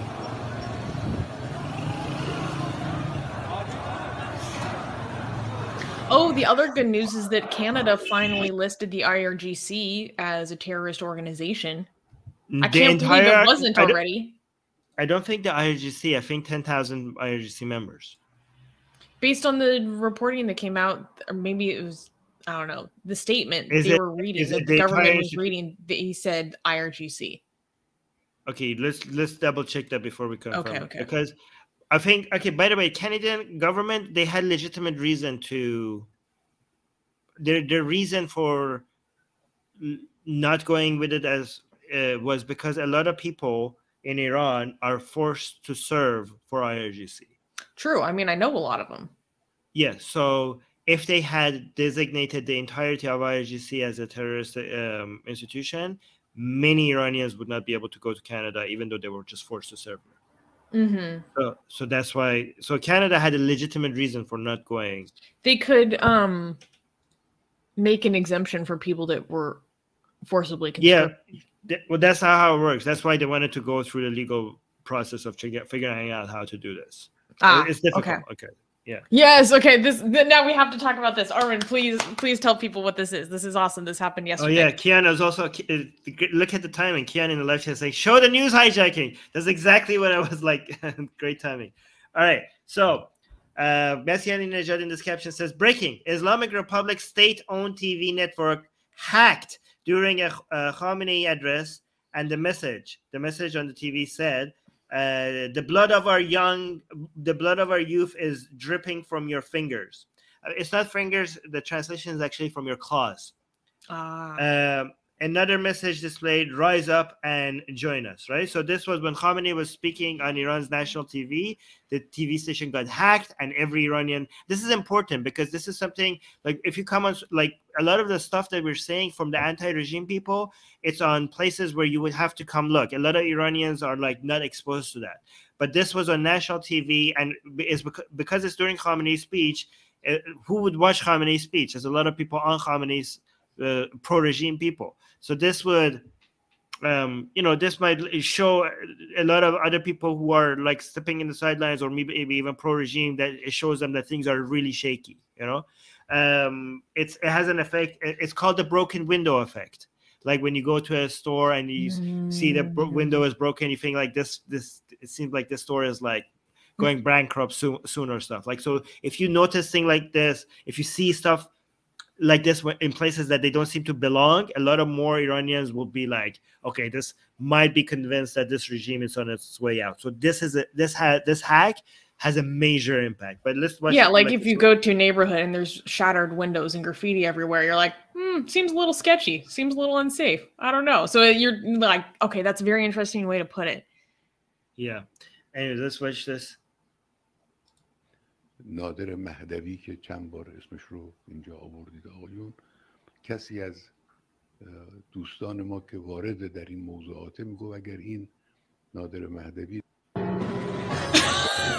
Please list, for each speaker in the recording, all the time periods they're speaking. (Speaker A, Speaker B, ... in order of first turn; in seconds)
Speaker A: 6.1-11.9, 12.6-14.4, 19.2-27.4, 30.5-31.1, 47.8-49.1, 60.7-61.2, 65.4-66.6, 67.8-69.6, 70.2-71.2, 77.4-78.2, 79.1-84.7, 113.9-114.5, 161.8-163.2, 183.9-193.8
Speaker B: 12.5-14.0, 15.0-18.2, 23.7-25.4, 28.5-31.4, 31.9-36.1, 37.4-38.9, 39.8-47.3, 49.7-60.1, 61.4-65.1, 70.8-79.0, 84.4-113.3, 114.4-146.1, 146.8-166.3, 166.8-171.5, 172.2-184.7, 194.8-196.6
Speaker C: 198.6-202.6, 203.2-203.9, 204.6-208.3, 208.9-209.8